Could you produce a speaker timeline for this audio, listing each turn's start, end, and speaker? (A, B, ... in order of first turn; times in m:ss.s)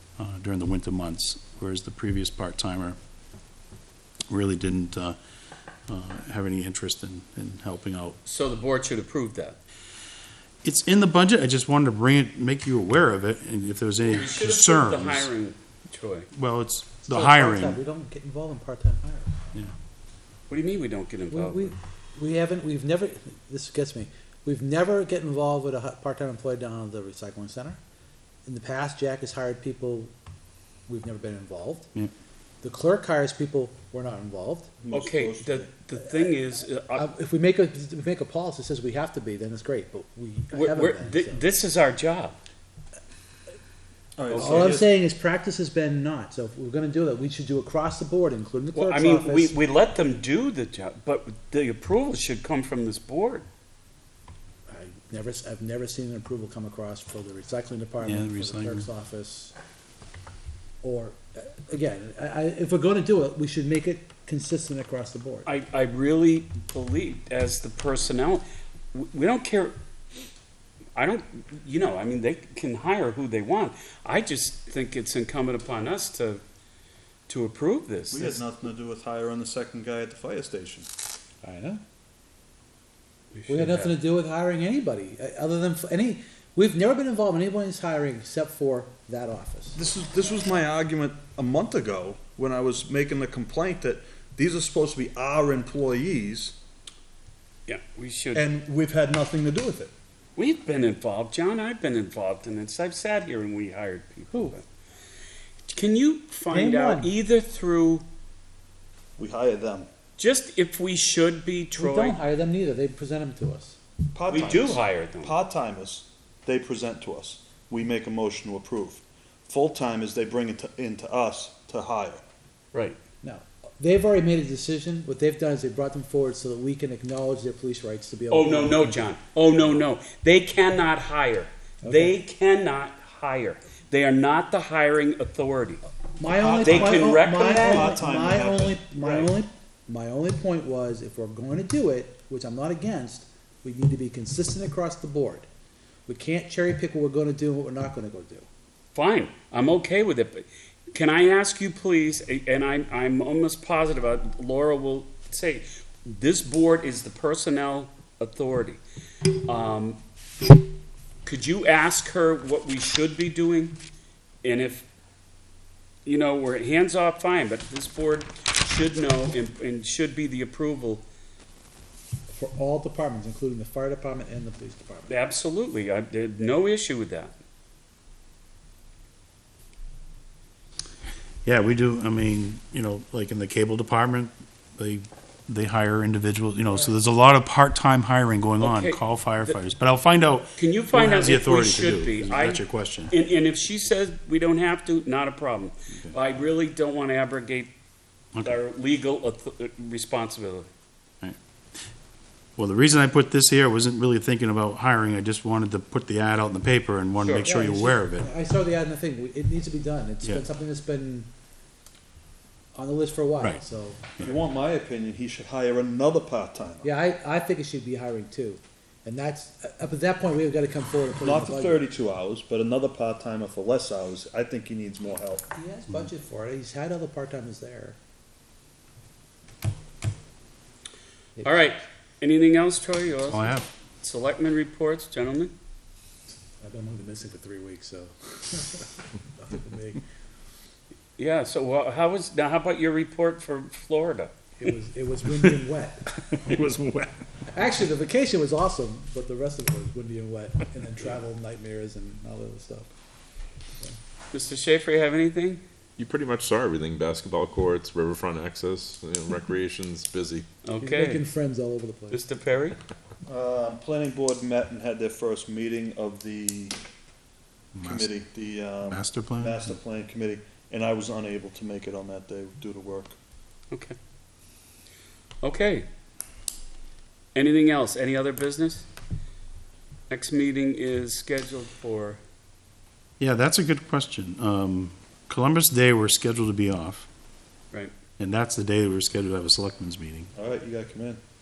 0:00.2-0:03.0 A
0:04.3-0:05.2 A
0:05.9-0:08.2 A
0:08.2-0:09.6 B
0:10.6-0:15.3 A
0:14.0-0:16.3 B
0:16.3-0:17.8 A
0:17.1-0:19.3 C
0:20.5-0:21.7 B
0:21.3-0:27.8 C
0:28.4-0:30.1 C
0:30.9-0:31.9 C
0:32.6-0:34.8 C
0:34.8-0:35.6 D
0:34.9-0:37.0 B
0:35.6-0:36.3 C
0:36.9-0:41.4 C
0:40.5-0:42.4 B
0:44.2-0:44.9 D
0:44.3-0:44.7 B
0:44.3-0:49.5 C
0:48.7-0:53.4 B
0:54.7-0:59.5 C
0:58.0-0:58.8 A
1:00.8-1:05.5 C
1:05.4-1:09.8 B
1:10.9-1:16.4 B
1:17.3-1:18.3 B
1:18.1-1:20.9 D
1:21.4-1:21.8 C
1:23.3-1:23.9 B
1:23.5-1:29.8 C
1:29.7-1:36.6 D
1:37.7-1:38.4 B
1:38.3-1:39.9 D
1:40.4-1:44.6 B
1:44.3-1:44.6 C
1:45.7-1:48.0 B
1:46.5-1:47.1 C
1:49.2-1:49.9 D
1:50.2-1:52.2 B
1:51.7-1:53.8 C
1:54.1-2:02.2 D
1:54.3-1:55.3 B
2:03.2-2:09.1 C
2:08.3-2:15.8 B
2:11.8-2:12.2 C
2:16.2-2:25.5 C
2:16.4-2:18.8 D
2:16.6-2:18.0 B
2:19.0-2:19.3 B
2:26.1-2:28.5 C
2:28.9-2:40.0 B
2:41.2-2:43.8 B
2:44.4-2:44.9 B
2:46.0-2:51.0 B
2:52.3-2:55.1 C
2:55.1-2:57.4 B
3:01.4-3:13.1 A
3:08.6-3:09.6 B
3:10.6-3:17.7 B
3:18.4-3:20.7 B
3:22.6-3:28.3 A
3:27.2-3:27.5 B
3:27.3-3:31.3 C
3:32.7-3:34.2 C
3:34.2-3:36.9 D
3:36.8-3:41.8 C
3:41.2-3:45.5 D
3:45.5-3:48.0 C
3:51.4-3:55.5 B
3:53.2-3:53.6 A
3:56.6-4:00.0 C
4:01.2-4:04.3 B
4:04.6-4:06.3 C
4:06.3-4:07.1 A
4:07.5-4:12.9 C
4:14.3-4:15.6 B
4:16.0-4:20.4 E
4:20.6-4:21.2 B
4:20.8-4:22.2 C
4:22.1-4:22.8 B
4:23.2-4:26.8 D
4:27.8-4:33.1 D
4:27.8-4:28.1 A
4:28.9-4:29.7 A
4:33.7-4:34.0 B
4:35.4-4:35.8 B
4:37.3-4:38.9 B
4:40.1-4:42.2 B
4:43.2-4:47.1 A
4:48.2-4:50.3 A
4:50.4-4:51.2 D